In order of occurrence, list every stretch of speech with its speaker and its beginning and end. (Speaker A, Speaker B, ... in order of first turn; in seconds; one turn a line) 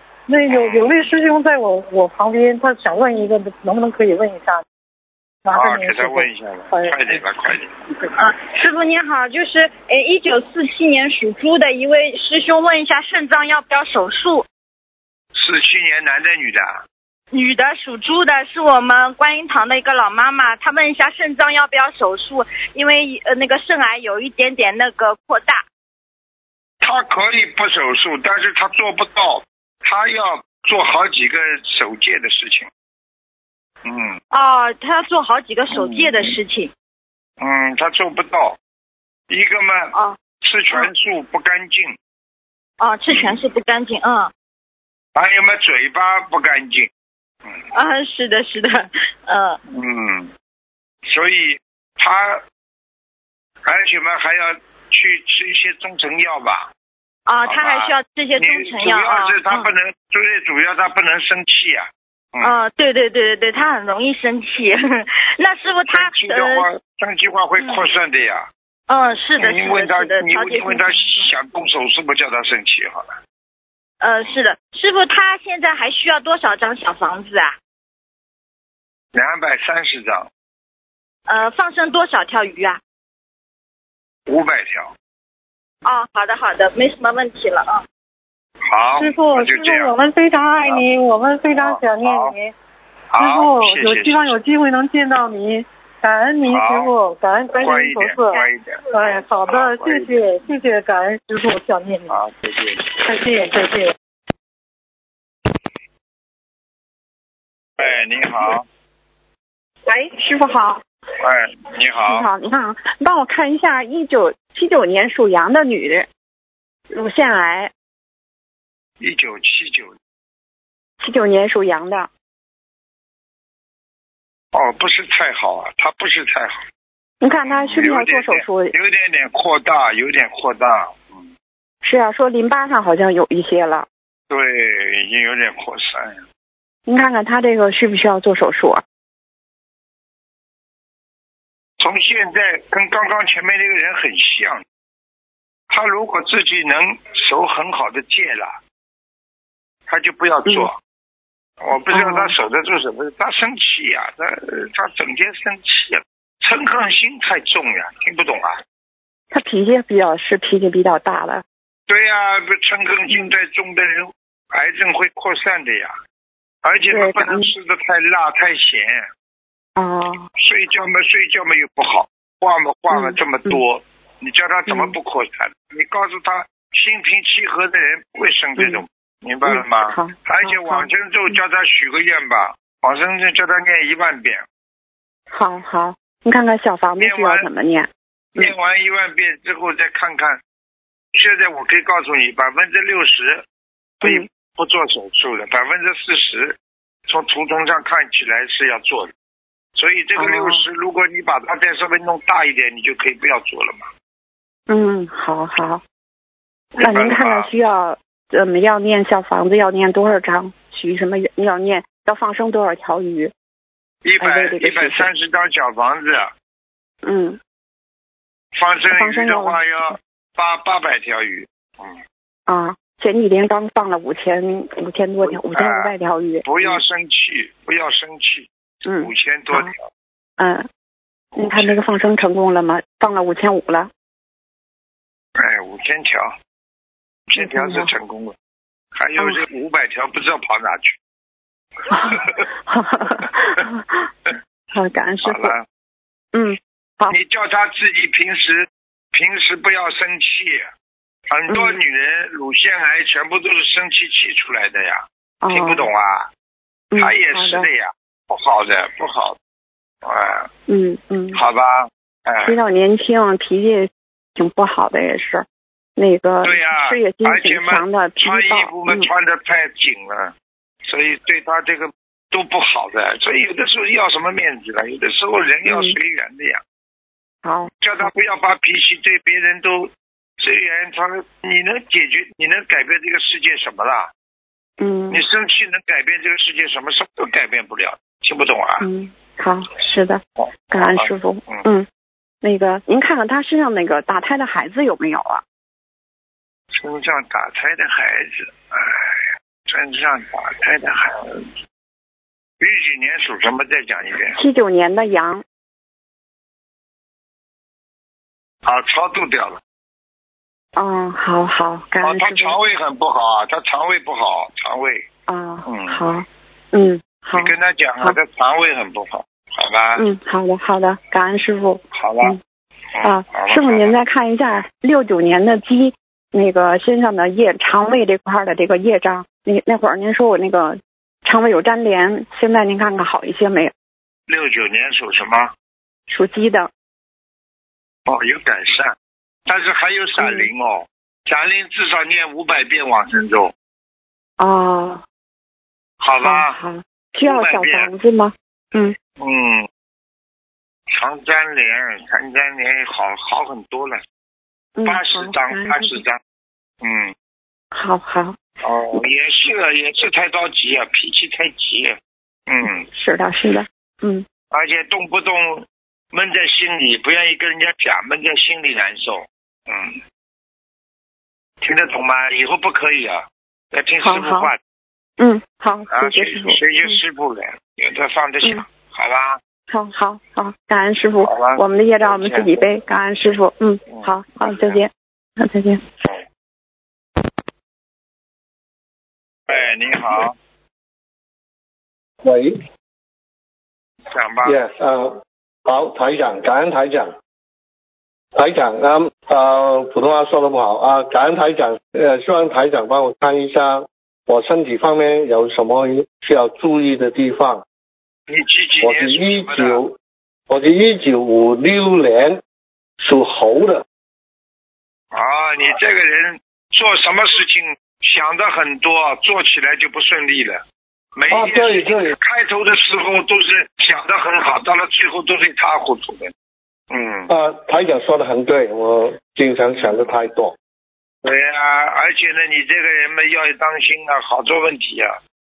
Speaker A: 0.3-4.6
Speaker B: 0.5-0.9
Speaker A: 5.4-7.2
Speaker B: 5.5-7.8
Speaker A: 7.9-8.1
Speaker C: 8.2-14.4
Speaker B: 15.3-16.8
Speaker C: 17.3-25.6
Speaker B: 26.8-32.7
Speaker B: 33.8-34.2
Speaker C: 34.3-36.7
Speaker B: 35.7-36.3
Speaker B: 37.4-38.6
Speaker B: 39.3-42.0
Speaker C: 42.8-44.3
Speaker B: 43.1-43.4
Speaker B: 45.1-46.9
Speaker C: 47.7-49.6
Speaker B: 49.7-50.3
Speaker B: 51.1-52.4
Speaker B: 53.6-56.7
Speaker C: 57.3-59.7
Speaker B: 57.5-62.5
Speaker C: 62.4-66.7
Speaker B: 65.9-68.5
Speaker C: 68.9-71.3
Speaker B: 69.4-73.1
Speaker C: 74.0-77.5
Speaker B: 79.1-80.3
Speaker C: 81.3-82.8
Speaker B: 84.3-84.9
Speaker C: 85.8-87.8
Speaker B: 88.7-89.9
Speaker A: 89.0-92.5
Speaker B: 91.5-92.3
Speaker B: 93.1-94.3
Speaker A: 93.2-102.2
Speaker B: 96.5-96.9
Speaker B: 97.6-100.2
Speaker B: 102.1-102.8
Speaker A: 102.9-103.9
Speaker B: 107.8-108.6
Speaker D: 109.8-110.8
Speaker B: 111.2-112.3
Speaker D: 112.0-116.1
Speaker D: 116.9-117.7
Speaker B: 119.0-119.9
Speaker D: 121.0-122.1
Speaker B: 124.5-126.6
Speaker D: 127.2-128.7
Speaker B: 127.4-131.3
Speaker D: 131.8-133.9
Speaker B: 134.3-136.2
Speaker D: 136.9-138.8
Speaker B: 141.8-144.6
Speaker B: 145.7-148.6
Speaker B: 149.9-150.8
Speaker B: 151.6-158.6
Speaker D: 151.9-152.3
Speaker D: 159.3-161.4
Speaker B: 161.9-165.9
Speaker B: 166.6-169.1
Speaker D: 166.9-167.5
Speaker D: 169.8-170.3
Speaker B: 170.4-184.4
Speaker D: 172.9-173.6
Speaker D: 174.7-174.9
Speaker D: 178.6-178.8
Speaker D: 179.4-181.3
Speaker D: 185.3-188.5
Speaker B: 187.0-187.5
Speaker B: 188.4-190.4
Speaker B: 191.1-193.4
Speaker D: 194.0-194.3
Speaker B: 194.0-196.6
Speaker B: 197.1-199.1
Speaker B: 199.8-203.9
Speaker D: 200.2-200.6
Speaker D: 204.7-205.8
Speaker B: 206.8-207.5
Speaker D: 206.8-213.3
Speaker B: 214.0-216.3
Speaker D: 214.2-215.1
Speaker D: 217.0-217.4
Speaker B: 218.5-222.0
Speaker D: 218.9-219.6
Speaker D: 222.5-226.8
Speaker B: 225.2-225.9
Speaker B: 226.4-228.5
Speaker D: 228.8-229.7
Speaker B: 229.0-229.8
Speaker D: 230.4-230.7
Speaker D: 231.3-233.9
Speaker B: 231.4-231.8
Speaker B: 235.4-236.3
Speaker B: 237.3-238.3
Speaker D: 237.4-237.9
Speaker B: 238.9-241.0
Speaker D: 239.2-239.4
Speaker D: 241.9-244.1
Speaker B: 242.1-242.4
Speaker D: 244.7-245.5
Speaker B: 245.2-245.6
Speaker D: 246.3-247.2
Speaker B: 247.1-250.7
Speaker B: 251.3-256.3
Speaker D: 251.5-251.8
Speaker D: 255.4-255.9
Speaker D: 256.9-257.7
Speaker B: 257.0-259.4
Speaker B: 260.0-260.5
Speaker D: 260.7-261.4
Speaker B: 261.3-262.6
Speaker D: 262.4-269.1
Speaker B: 266.4-270.3
Speaker B: 270.9-276.6
Speaker D: 275.6-275.9
Speaker D: 277.4-278.1
Speaker B: 277.8-284.1
Speaker D: 284.8-285.2
Speaker B: 285.1-288.8
Speaker D: 288.8-291.9
Speaker B: 290.4-291.6
Speaker D: 292.4-295.4
Speaker B: 296.7-301.5
Speaker B: 302.6-304.4
Speaker D: 304.3-305.4
Speaker B: 308.6-309.6
Speaker D: 310.8-312.6
Speaker B: 312.0-315.1
Speaker D: 315.3-318.1
Speaker B: 315.6-316.0
Speaker B: 317.3-320.0
Speaker D: 320.0-322.4
Speaker B: 321.9-322.3
Speaker B: 322.9-323.9
Speaker D: 323.0-333.7
Speaker B: 334.3-335.5
Speaker D: 336.1-336.7
Speaker B: 338.1-338.9
Speaker B: 339.5-343.5
Speaker D: 340.2-340.5
Speaker D: 344.4-345.0
Speaker B: 346.0-346.6
Speaker D: 346.2-348.9
Speaker B: 347.2-347.9
Speaker B: 349.2-349.7
Speaker B: 350.9-354.0
Speaker D: 354.8-356.0
Speaker B: 354.9-356.2
Speaker B: 356.8-357.1
Speaker D: 357.7-358.4
Speaker B: 358.6-362.0
Speaker B: 362.5-362.9
Speaker D: 362.9-364.2
Speaker B: 364.5-370.0
Speaker B: 371.6-374.6
Speaker D: 374.0-374.5
Speaker D: 375.2-377.0
Speaker B: 375.9-379.4
Speaker D: 379.7-385.8
Speaker B: 381.2-382.6
Speaker B: 383.9-384.8
Speaker B: 389.5-390.3
Speaker E: 392.2-392.6
Speaker B: 394.1-394.6
Speaker E: 394.4-397.1
Speaker E: 398.3-407.6
Speaker B: 408.3-409.8
Speaker E: 408.8-409.9
Speaker E: 410.5-412.4
Speaker E: 413.0-413.8
Speaker B: 415.1-420.6
Speaker B: 421.1-426.3
Speaker E: 421.3-422.1
Speaker B: 426.9-427.3
Speaker E: 427.3-430.6
Speaker B: 429.7-430.1
Speaker B: 431.2-435.2